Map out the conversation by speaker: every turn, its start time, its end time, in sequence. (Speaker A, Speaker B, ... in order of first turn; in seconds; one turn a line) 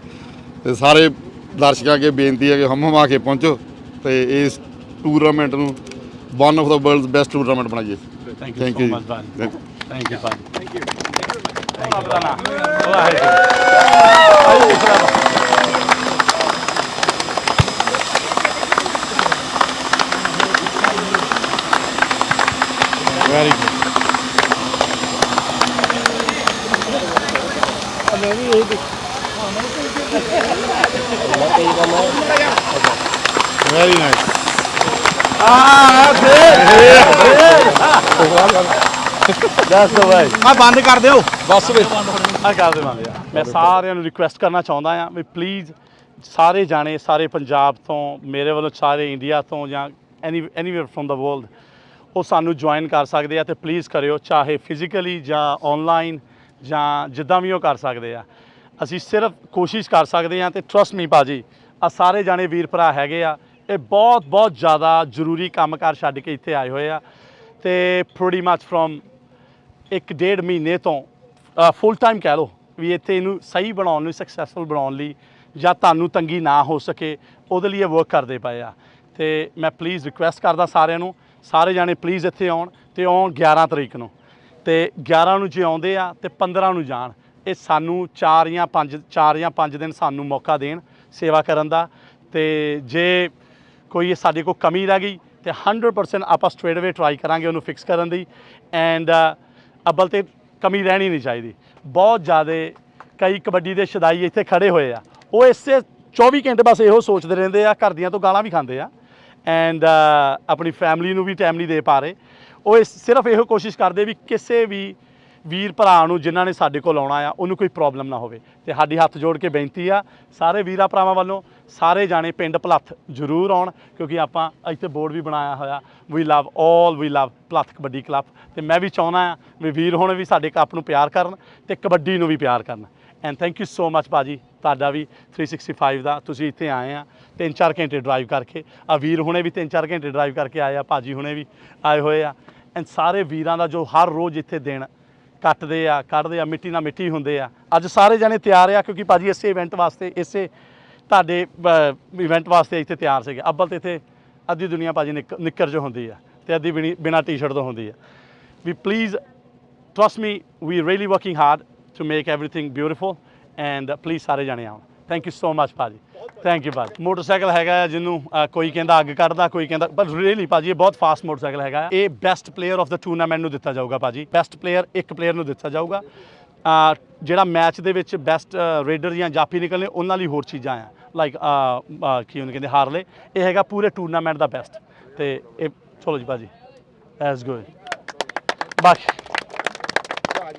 Speaker A: 0.6-5.8
Speaker A: 6.3-8.0
Speaker B: 8.4-10.5
Speaker A: 8.6-9.5
Speaker B: 11.8-13.5
Speaker B: 14.2-15.3
Speaker C: 23.1-23.7
Speaker B: 32.7-33.0
Speaker C: 33.6-34.4
Speaker B: 35.4-38.5
Speaker C: 36.3-37.7
Speaker C: 38.3-38.7
Speaker B: 39.6-40.4
Speaker C: 40.4-42.0
Speaker B: 41.6-51.5
Speaker B: 52.1-58.3
Speaker B: 58.8-67.0
Speaker B: 67.6-69.0
Speaker B: 69.9-84.1
Speaker B: 84.6-93.3
Speaker B: 93.9-108.9
Speaker B: 109.5-144.9
Speaker B: 145.4-150.5
Speaker B: 151.1-158.0
Speaker B: 158.6-159.2
Speaker B: 159.9-176.1
Speaker B: 176.6-186.5
Speaker B: 187.2-187.7
Speaker B: 188.8-189.2